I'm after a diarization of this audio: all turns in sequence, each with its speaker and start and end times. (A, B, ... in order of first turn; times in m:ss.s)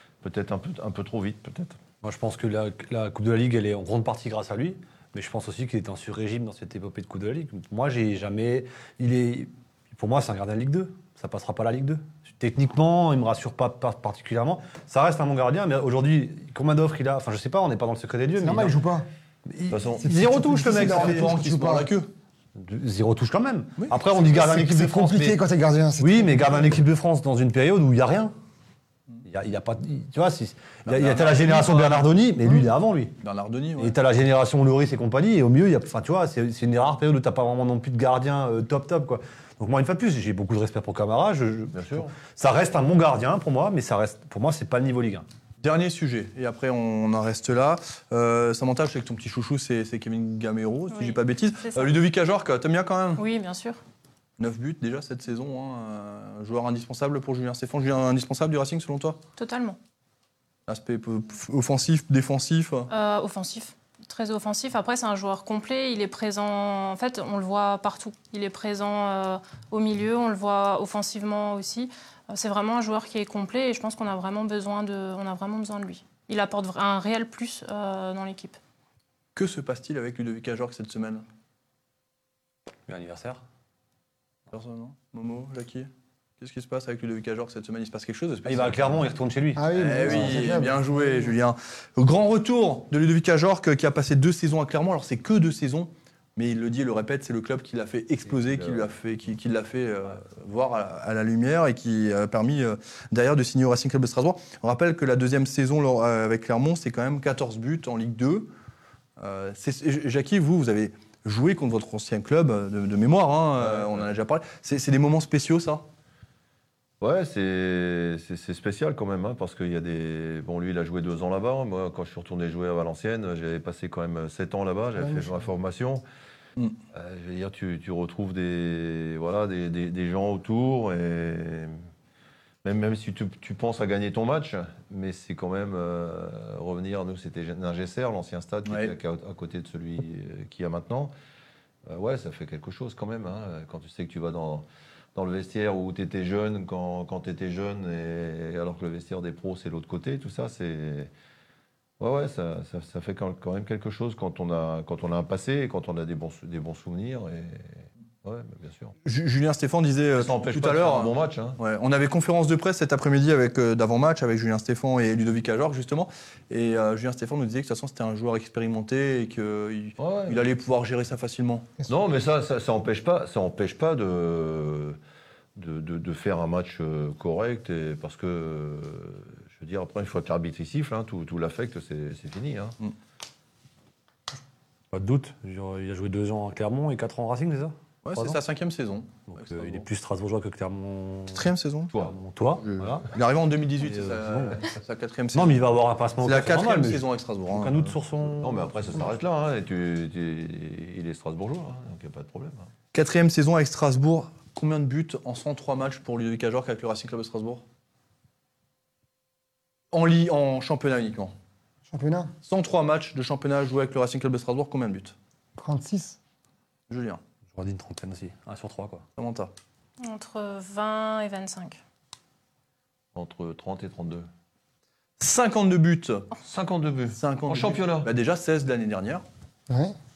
0:00.2-0:01.8 A
0:02.0-0:18.8 B
0:18.4-0:19.1 C
0:19.5-0:21.3 B
0:19.7-0:20.1 A
0:20.0-0:21.9 C
0:20.4-0:22.1 D
0:22.6-0:25.4 B
0:23.8-0:24.1 D
0:24.2-0:26.6 C
0:26.0-0:28.3 B
0:29.2-0:33.1 B
0:30.9-0:32.1 D
0:33.2-0:34.0 D
0:33.8-0:45.3 B
0:41.7-0:42.2 A
0:45.6-0:53.2 D
0:50.9-0:52.0 E
0:53.2-0:53.8 E
0:54.4-0:59.2 D
0:59.4-0:59.8 E
1:00.7-1:02.9 D
1:02.9-1:18.6 E
1:19.4-1:21.2 D
1:22.9-1:23.4 B
1:24.5-1:29.0 D
1:28.4-1:30.5 B
1:29.6-1:31.3 C
1:29.7-1:48.5 D
1:49.2-1:55.8 D
1:53.6-1:54.1 A
1:57.0-2:06.0 A
2:05.0-2:05.3 C
2:06.9-2:11.7 A
2:12.6-2:21.1 A
2:18.7-2:18.9 D
2:21.9-2:31.1 A
2:32.0-2:39.0 A
2:39.0-2:51.7 D
2:40.1-2:41.6 A
2:50.0-2:50.4 A
2:51.9-2:55.0 A
2:55.6-3:02.8 A
3:04.9-3:08.4 B
3:08.0-3:09.8 D
3:09.3-3:13.1 B
3:11.3-3:11.9 D
3:12.6-3:15.6 D
3:13.8-3:14.7 B
3:15.3-3:18.7 B
3:16.2-3:17.8 D
3:18.4-3:22.7 A
3:22.9-3:27.6 D
3:29.9-3:31.3 D
3:31.9-3:32.3 C
3:32.4-3:35.1 D
3:35.6-3:36.2 C
3:36.9-3:37.2 D
3:37.5-3:39.0 B
3:39.2-3:39.5 D
3:40.0-3:41.8 E
3:43.1-3:44.3 A
3:45.2-3:46.3 D
3:46.4-3:48.1 A
3:47.1-3:49.2 D
3:49.7-3:50.0 C